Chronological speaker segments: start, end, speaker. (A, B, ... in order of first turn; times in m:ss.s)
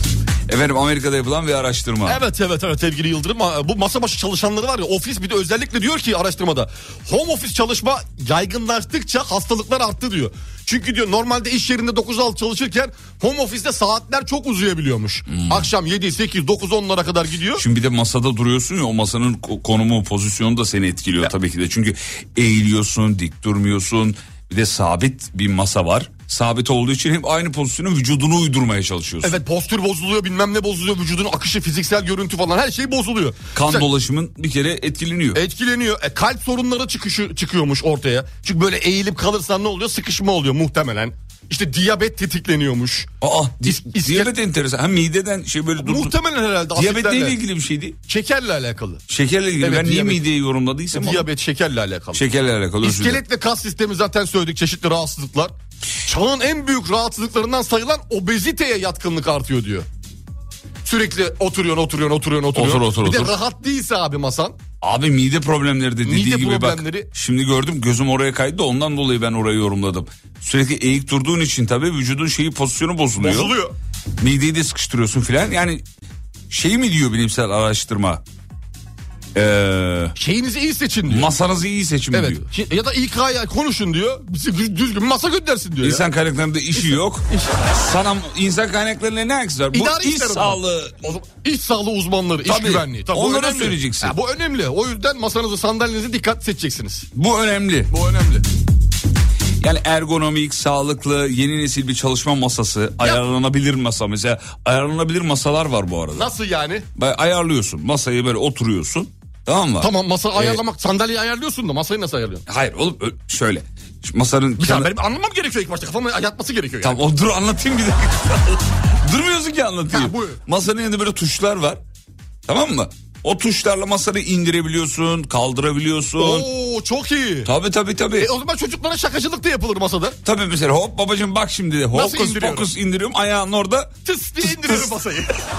0:00.5-0:02.2 A
0:02.0-0:17.6 B
0:15.3-0:15.7 A
0:17.6-0:29.4 A
0:29.2-0:33.9 B
0:33.5-0:35.4 A
0:35.3-0:43.1 B
0:43.2-0:46.1 A
0:43.6-0:44.3 B
0:45.8-0:47.4 B
0:46.7-0:48.0 A
0:48.1-0:49.0 B
0:49.1-0:51.3 A
0:49.6-0:50.2 B
0:50.9-0:52.2 B
0:52.1-0:53.2 A
0:52.8-0:55.5 B
0:56.0-0:59.9 B
1:00.8-1:04.6 B
1:02.5-1:03.3 A
1:04.8-1:13.5 A
1:06.0-1:07.1 B
1:13.2-1:13.7 B
1:14.2-1:15.8 A
1:16.5-1:18.2 A
1:19.3-1:20.1 A
1:20.2-1:21.3 B
1:21.1-1:22.4 A
1:22.1-1:26.0 B
1:25.8-1:31.1 A
1:26.8-1:27.6 B
1:29.7-1:37.1 B
1:32.4-1:34.2 A
1:37.1-1:37.9 A
1:37.9-1:38.4 B
1:39.6-1:46.3 A
1:46.1-1:46.8 B
1:46.9-1:50.6 A
1:49.8-1:52.4 B
1:52.5-1:54.9 A
1:54.6-1:57.0 B
1:56.8-2:01.8 A
1:59.9-2:00.4 B
2:02.5-2:06.5 A
2:06.2-2:07.5 B
2:07.4-2:08.3 A
2:08.2-2:10.2 B
2:10.2-2:13.9 A
2:11.9-2:12.7 B
2:14.0-2:15.4 B
2:14.4-2:14.9 A